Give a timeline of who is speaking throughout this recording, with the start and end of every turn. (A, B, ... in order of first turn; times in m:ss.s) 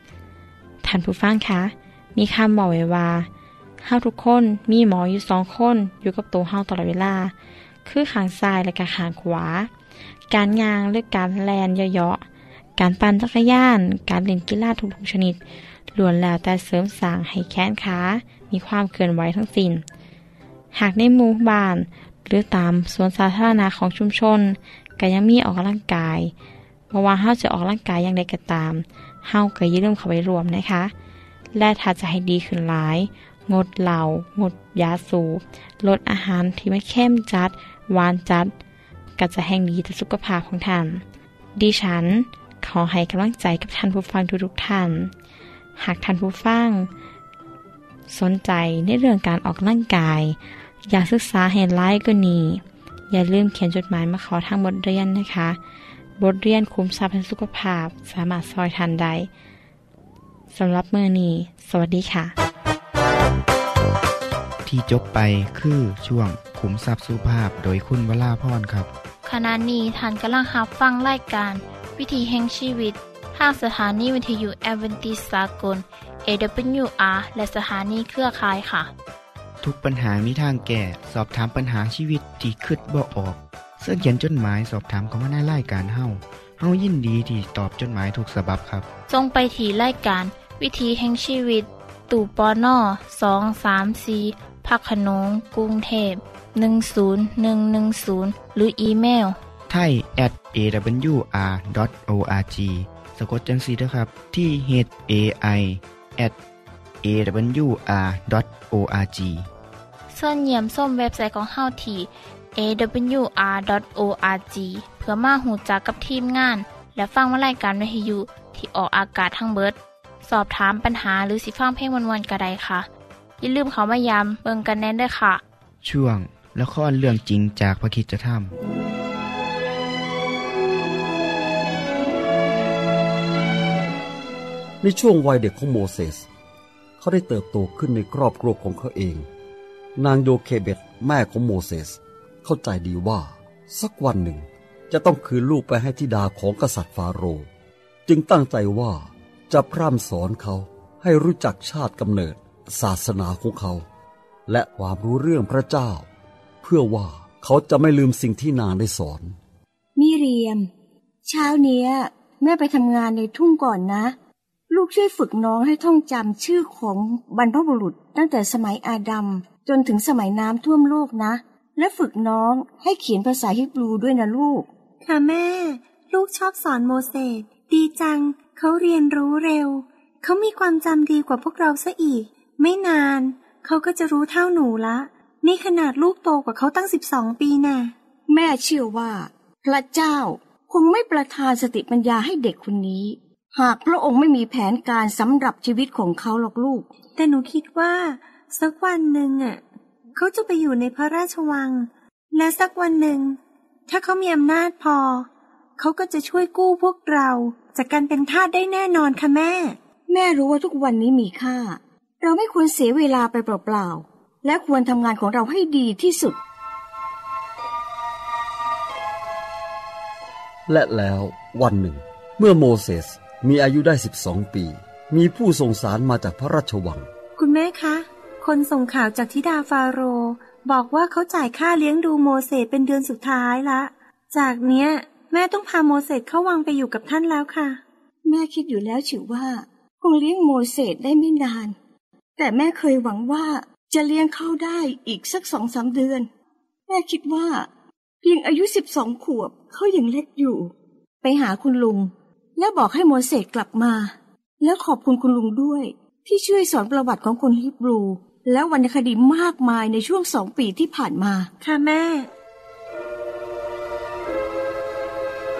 0:00.8-0:03.3 A
0:03.8-0:09.7 A
0:10.3-0:12.2 A
0:12.8-0:15.4 A
0:15.9-0:19.8 A
0:20.7-0:26.3 A
0:26.9-0:30.9 A
0:31.5-0:38.5 A
0:39.2-0:41.0 A
0:41.6-0:45.1 A
0:45.8-0:46.9 A
0:48.1-0:55.6 A
0:56.2-0:59.3 A
1:00.5-1:02.3 A
1:04.6-1:08.9 B
1:09.2-1:18.9 C
1:19.6-1:28.8 B
1:29.1-1:39.4 C
1:39.7-1:46.4 B
1:47.0-1:49.4 B
1:50.1-2:02.9 C
2:03.4-2:05.4 C
2:05.8-2:08.5 B
2:14.8-2:16.2 D
2:17.0-2:19.3 D
2:20.0-2:27.5 D
2:28.1-2:33.8 D
2:34.5-2:36.1 D
2:36.6-2:39.4 D
2:40.0-2:40.7 E
2:41.2-2:44.1 E
2:44.7-2:54.7 E
2:55.0-3:07.9 F
3:08.3-3:16.9 E
3:17.2-3:19.6 F
3:20.2-3:29.8 F
3:30.1-3:36.4 E
3:40.7-3:47.1 D
3:47.4-3:57.8 F
3:58.2-4:01.7 E
4:02.4-4:06.3 E
4:06.9-4:07.7 E
4:08.2-4:21.5 E
4:21.6-4:22.3 F